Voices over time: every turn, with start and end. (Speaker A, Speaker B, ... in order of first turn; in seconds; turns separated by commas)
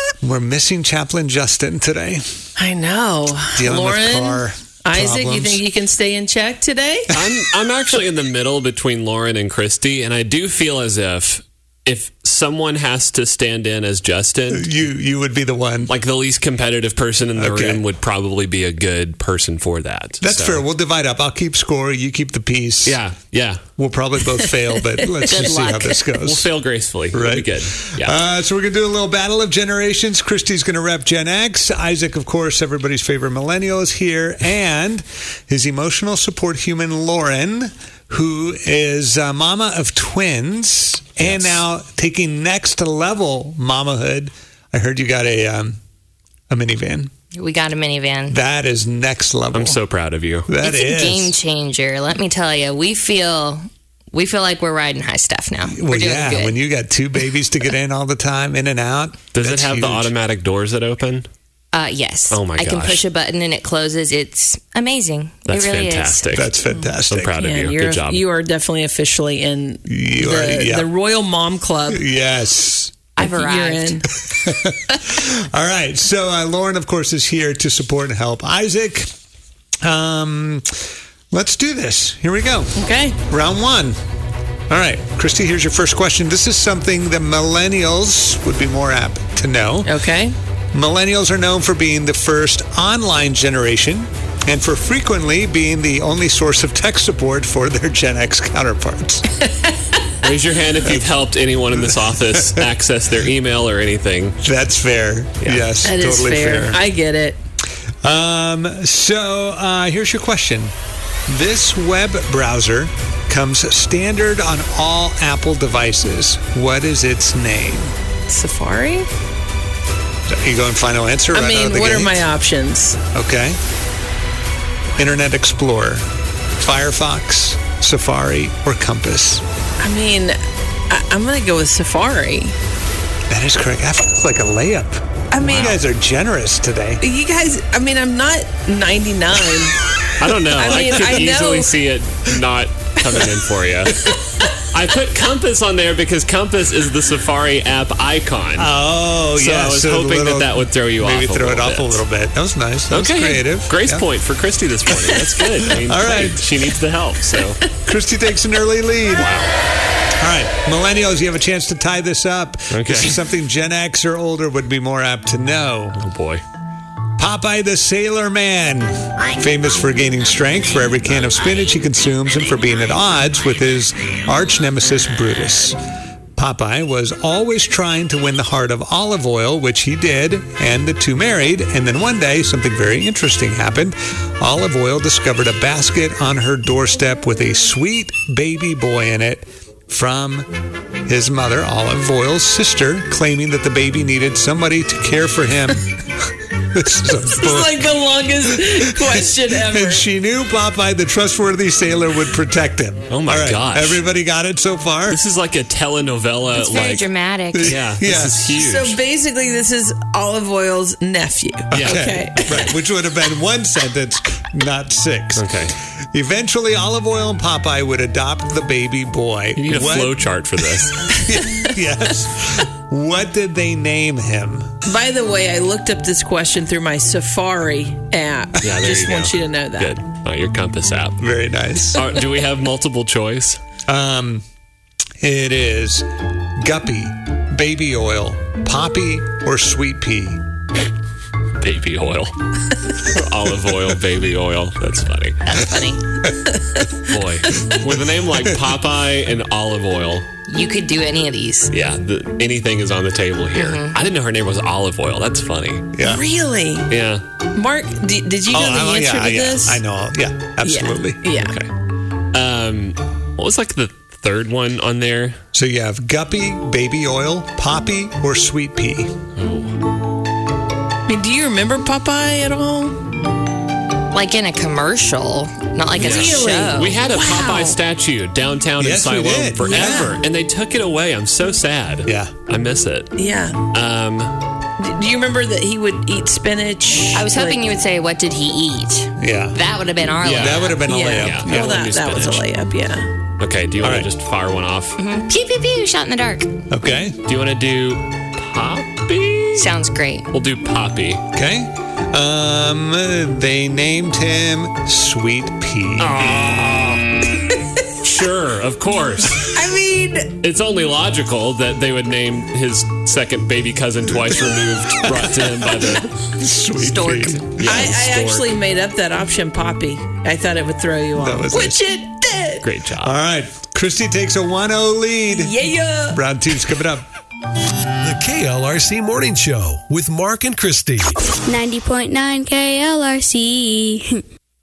Speaker A: 0.2-2.2, Speaker B: 2.6-7.1, Speaker A: 3.6-5.6, Speaker C: 7.1-14.7, Speaker A: 14.5-15.9, Speaker C: 15.9-20.6, Speaker A: 17.4-17.9, Speaker A: 20.2-23.0, Speaker C: 22.9-23.6, Speaker A: 23.8-26.5, Speaker B: 25.0-26.0, Speaker C: 25.3-28.2, Speaker A: 27.1-45.8, Speaker C: 41.2-41.6, Speaker A: 46.5-47.1, Speaker D: 47.3-48.4, Speaker A: 48.3-49.8, Speaker C: 49.5-50.5, Speaker A: 50.5-51.3, Speaker D: 50.6-56.6, Speaker A: 55.7-60.1, Speaker C: 59.3-61.3, Speaker D: 61.7-66.4, Speaker C: 62.3-63.0, Speaker C: 65.5-66.5, Speaker A: 66.3-67.3, Speaker B: 66.7-72.0, Speaker C: 67.1-68.2, Speaker A: 69.9-70.9, Speaker A: 71.9-73.0, Speaker D: 73.2-74.0, Speaker B: 73.2-74.1, Speaker A: 74.2-79.1, Speaker A: 79.8-84.0, Speaker B: 82.8-83.2, Speaker A: 84.7-90.0, Speaker B: 89.8-90.3, Speaker A: 90.7-99.4, Speaker B: 99.6-100.1, Speaker C: 100.2-104.4, Speaker A: 101.7-102.7, Speaker A: 104.4-106.8, Speaker C: 105.4-105.7, Speaker B: 105.8-107.4, Speaker A: 108.0-110.7, Speaker A: 111.3-117.9, Speaker B: 118.3-119.1, Speaker A: 120.3-122.2, Speaker B: 121.3-123.0, Speaker A: 123.1-123.6, Speaker A: 125.0-126.1, Speaker A: 126.6-129.4, Speaker B: 129.8-130.4, Speaker B: 130.9-132.6, Speaker A: 133.3-137.0, Speaker B: 135.3-135.8, Speaker B: 137.0-139.8, Speaker C: 140.2-144.0, Speaker B: 140.6-141.8, Speaker C: 144.7-148.7, Speaker A: 148.6-154.1, Speaker C: 149.3-152.0, Speaker C: 152.9-157.7, Speaker A: 155.8-156.4, Speaker A: 157.8-159.3, Speaker C: 159.2-159.5, Speaker A: 160.2-166.0, Speaker C: 162.7-163.3, Speaker C: 165.9-166.4, Speaker A: 167.2-175.8, Speaker A: 176.4-190.5, Speaker A: 191.1-197.8, Speaker B: 197.3-200.1, Speaker A: 198.6-205.2, Speaker C: 203.1-204.0, Speaker C: 205.1-207.1, Speaker D: 206.5-207.8, Speaker A: 207.5-208.6, Speaker C: 207.6-209.0, Speaker B: 208.5-212.8, Speaker A: 211.7-215.5, Speaker C: 211.7-212.1, Speaker C: 215.3-215.7, Speaker A: 216.1-220.2, Speaker C: 219.6-221.1, Speaker A: 221.0-224.7, Speaker B: 221.4-221.7, Speaker B: 224.8-230.0, Speaker C: 228.6-231.2, Speaker A: 231.2-232.1, Speaker C: 231.9-233.6, Speaker A: 233.9-234.4, Speaker A: 235.2-236.1, Speaker A: 236.6-240.4, Speaker C: 241.6-245.4, Speaker D: 245.5-245.9, Speaker B: 245.6-247.7, Speaker C: 247.1-250.3, Speaker D: 250.5-251.7, Speaker C: 251.7-255.9, Speaker D: 253.6-254.0, Speaker A: 255.9-256.2, Speaker B: 256.0-256.9, Speaker C: 256.9-257.2, Speaker B: 257.5-259.8, Speaker A: 258.5-261.2, Speaker B: 260.6-261.6, Speaker C: 261.4-261.7, Speaker C: 262.3-265.4, Speaker A: 265.5-269.1, Speaker C: 269.4-269.7, Speaker B: 271.1-273.0, Speaker D: 274.1-277.0, Speaker B: 275.9-277.8, Speaker C: 276.0-283.1, Speaker A: 278.8-280.1, Speaker B: 279.6-280.2, Speaker A: 282.1-282.4, Speaker B: 283.2-283.6, Speaker C: 283.7-284.4, Speaker B: 284.8-287.6, Speaker D: 287.1-291.0, Speaker A: 289.2-289.6, Speaker A: 290.2-291.9, Speaker C: 290.2-292.4, Speaker B: 290.9-293.1, Speaker C: 293.4-294.9, Speaker A: 293.8-294.1, Speaker D: 295.0-296.5, Speaker A: 296.7-297.2, Speaker C: 297.2-299.8, Speaker D: 299.6-300.3, Speaker C: 300.3-301.2, Speaker A: 301.3-306.3, Speaker C: 306.0-307.4, Speaker C: 308.0-309.6, Speaker B: 309.5-310.4, Speaker C: 310.4-316.1, Speaker A: 316.3-317.9, Speaker D: 316.8-317.7, Speaker C: 317.5-318.5, Speaker B: 317.7-322.7, Speaker A: 321.2-321.8, Speaker C: 322.6-323.1, Speaker A: 323.0-325.6, Speaker B: 325.3-326.2, Speaker A: 326.1-327.1, Speaker E: 328.0-331.3, Speaker F: 331.4-334.2